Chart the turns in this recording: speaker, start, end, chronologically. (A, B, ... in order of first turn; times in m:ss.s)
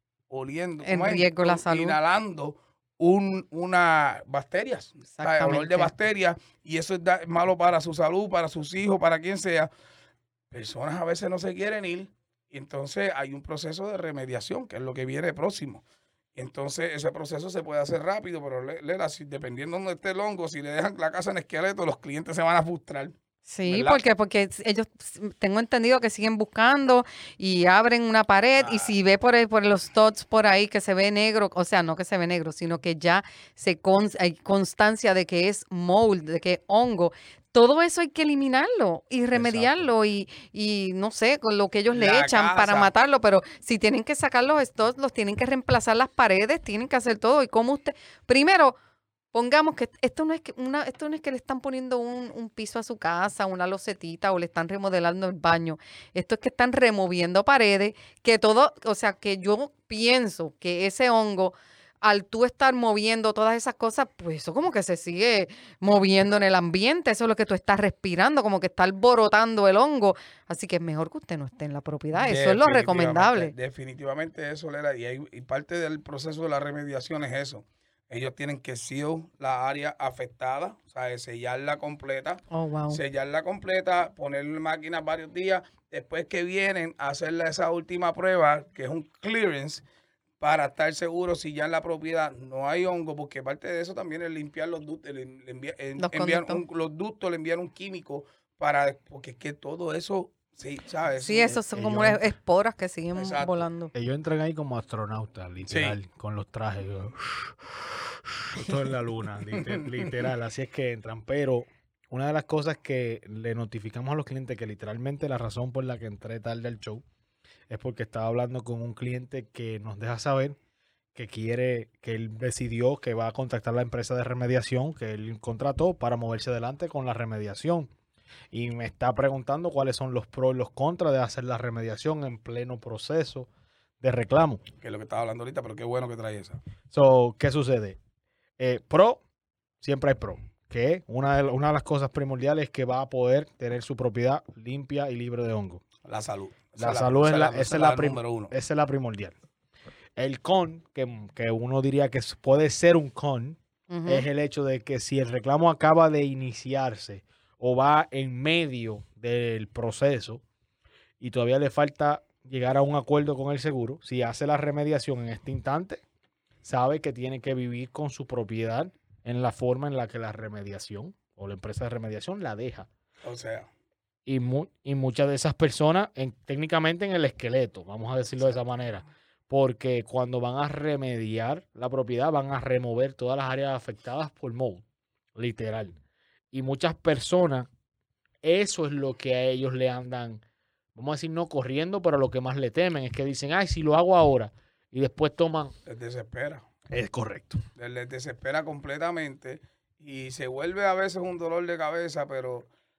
0:00.3-0:09.7 A
0:00.8-0:02.0 B
0:05.1-0:05.9 B
0:10.5-0:15.8 A
0:16.4-0:23.2 A
0:23.5-0:48.8 B
0:23.7-0:24.0 A
0:28.6-0:28.9 A
0:39.3-0:39.9 C
0:41.9-0:42.9 A
0:49.3-1:13.5 B
1:12.2-1:29.8 A
1:22.5-1:23.0 B
1:30.4-1:41.6 A
1:36.0-1:36.6 B
1:41.2-1:43.9 B
1:41.7-1:42.2 C
1:43.2-1:43.6 A
1:43.9-1:57.0 C
1:45.7-1:46.0 A
1:49.5-1:50.2 A
1:57.7-2:00.6 C
2:01.2-2:07.9 C
2:08.5-2:13.5 C
2:14.0-2:14.6 C
2:14.8-2:16.6 A
2:16.9-2:18.0 C
2:18.6-2:19.2 C
2:19.8-2:25.8 C
2:26.0-2:28.5 A
2:26.8-2:29.4 C
2:30.2-2:40.4 C
2:33.9-2:34.3 B
2:41.2-2:46.0 C
2:46.6-2:52.9 C
2:53.2-2:53.7 A
2:54.3-3:04.8 C
3:05.4-3:06.0 C
3:06.5-3:07.7 C
3:08.4-3:10.4 C
3:11.0-3:15.7 C
3:15.9-3:16.7 A
3:16.9-3:17.6 C
3:17.8-3:22.7 A